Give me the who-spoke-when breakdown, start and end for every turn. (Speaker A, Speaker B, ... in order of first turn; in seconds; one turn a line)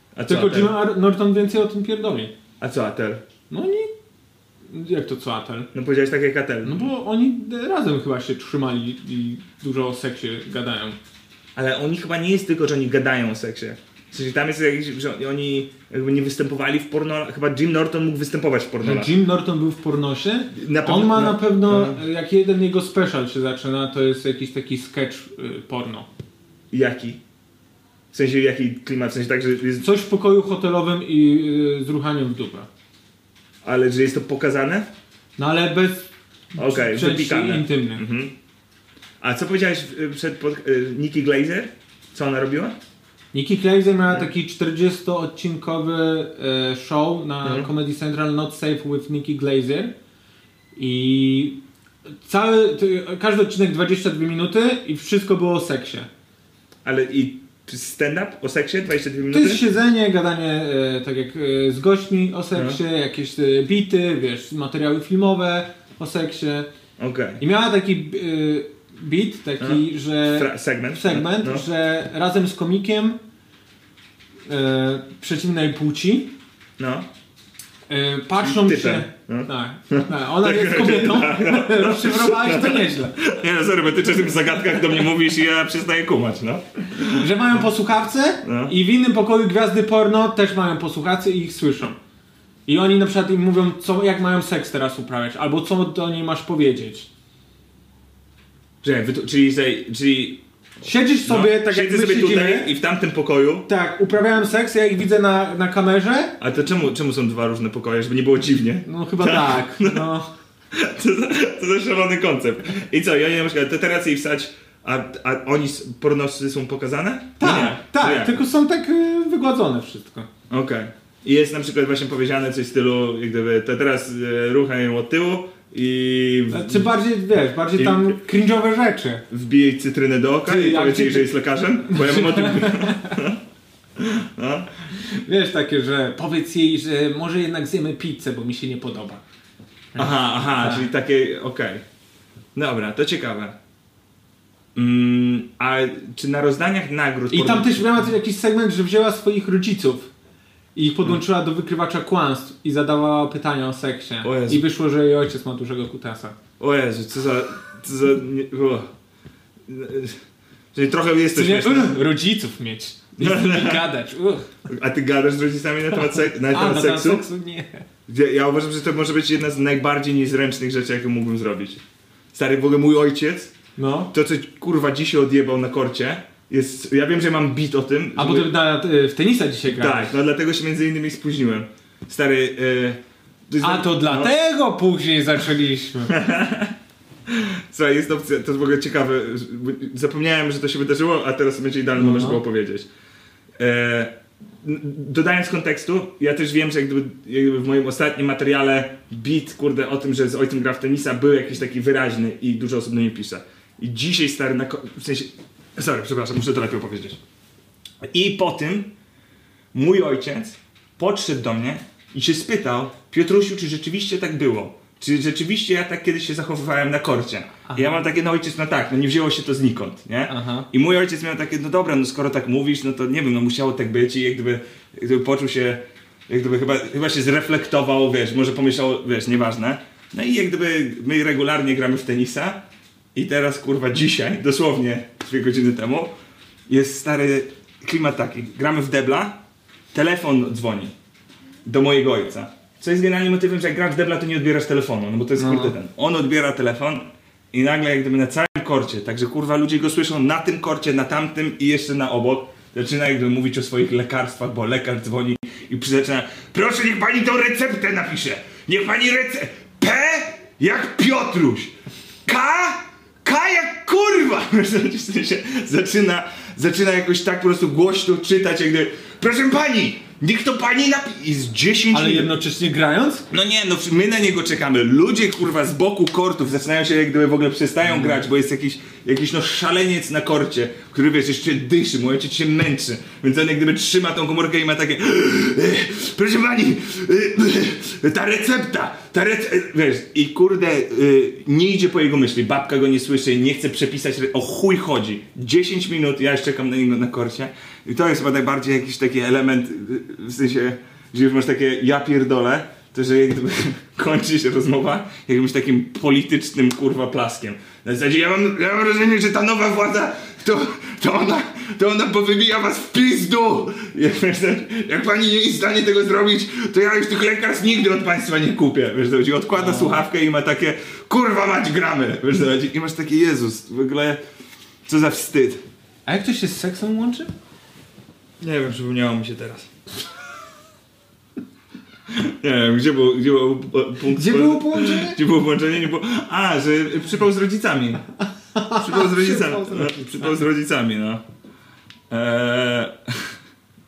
Speaker A: 0.1-0.8
Speaker B: 0.3-2.3
Speaker A: 2.6-3.2
Speaker B: 3.5-3.9
Speaker B: 4.7-5.7
Speaker A: 5.7-6.9
Speaker B: 6.6-11.0
Speaker A: 11.6-19.1
Speaker B: 18.8-26.1
Speaker A: 20.5-22.0
Speaker A: 26.7-27.2
Speaker A: 28.1-29.9
Speaker B: 29.8-32.7
Speaker A: 33.6-34.9
Speaker B: 35.4-38.0
Speaker A: 36.6-38.3
Speaker A: 39.2-42.8
Speaker B: 43.3-49.9
Speaker A: 47.4-47.7
Speaker B: 50.8-51.6
Speaker B: 52.2-56.1
Speaker A: 56.8-59.6
Speaker B: 59.3-66.7
Speaker A: 67.0-67.4
Speaker B: 67.4-73.2
Speaker A: 69.6-71.7
Speaker B: 74.5-76.3
Speaker A: 76.8-77.1
Speaker B: 77.9-83.2
Speaker A: 78.4-87.7
Speaker B: 87.2-92.0
Speaker A: 88.4-88.8
Speaker B: 92.7-97.1
Speaker A: 98.8-100.4
Speaker B: 100.8-102.7
Speaker A: 101.2-103.7
Speaker B: 103.7-106.4
Speaker A: 106.4-110.1
Speaker B: 108.9-110.3
Speaker A: 110.7-118.4
Speaker B: 117.4-120.3
Speaker A: 120.5-126.9
Speaker B: 126.5-129.3
Speaker A: 127.8-128.2
Speaker A: 129.3-133.4
Speaker B: 130.5-131.3
Speaker B: 131.9-133.2
Speaker A: 134.0-134.7
Speaker B: 135.1-139.2
Speaker B: 139.9-140.9
Speaker A: 140.0-141.8
Speaker A: 142.6-143.6
Speaker A: 144.8-148.1
Speaker B: 147.3-150.1
Speaker B: 150.8-156.4
Speaker A: 154.2-154.6
Speaker A: 156.6-158.9
Speaker A: 159.7-160.2
Speaker A: 160.7-161.9
Speaker B: 161.3-164.5
Speaker A: 163.2-163.9
Speaker A: 164.7-167.3
Speaker B: 166.1-167.8
Speaker A: 168.1-171.8
Speaker A: 172.3-173.6
Speaker B: 173.8-174.1
Speaker A: 174.1-178.5
Speaker B: 178.2-180.1
Speaker A: 179.7-184.3
Speaker B: 183.6-186.2
Speaker A: 186.1-186.8
Speaker A: 187.3-192.9
Speaker B: 191.9-192.4
Speaker A: 193.6-207.2
Speaker A: 208.0-208.9
Speaker A: 209.7-232.6
Speaker B: 217.7-218.0
Speaker B: 220.3-220.7
Speaker A: 233.2-236.1
Speaker A: 236.7-239.4
Speaker A: 239.9-240.9
Speaker A: 241.7-261.7
Speaker B: 245.4-245.8
Speaker A: 262.3-272.3
Speaker B: 271.9-273.3
Speaker A: 273.3-324.2
Speaker B: 319.6-320.1
Speaker A: 324.9-325.6
Speaker B: 326.1-327.3
Speaker A: 328.4-329.7
Speaker A: 332.1-338.0
Speaker B: 334.1-335.2
Speaker B: 338.6-340.4
Speaker A: 338.7-341.2
Speaker A: 342.1-343.3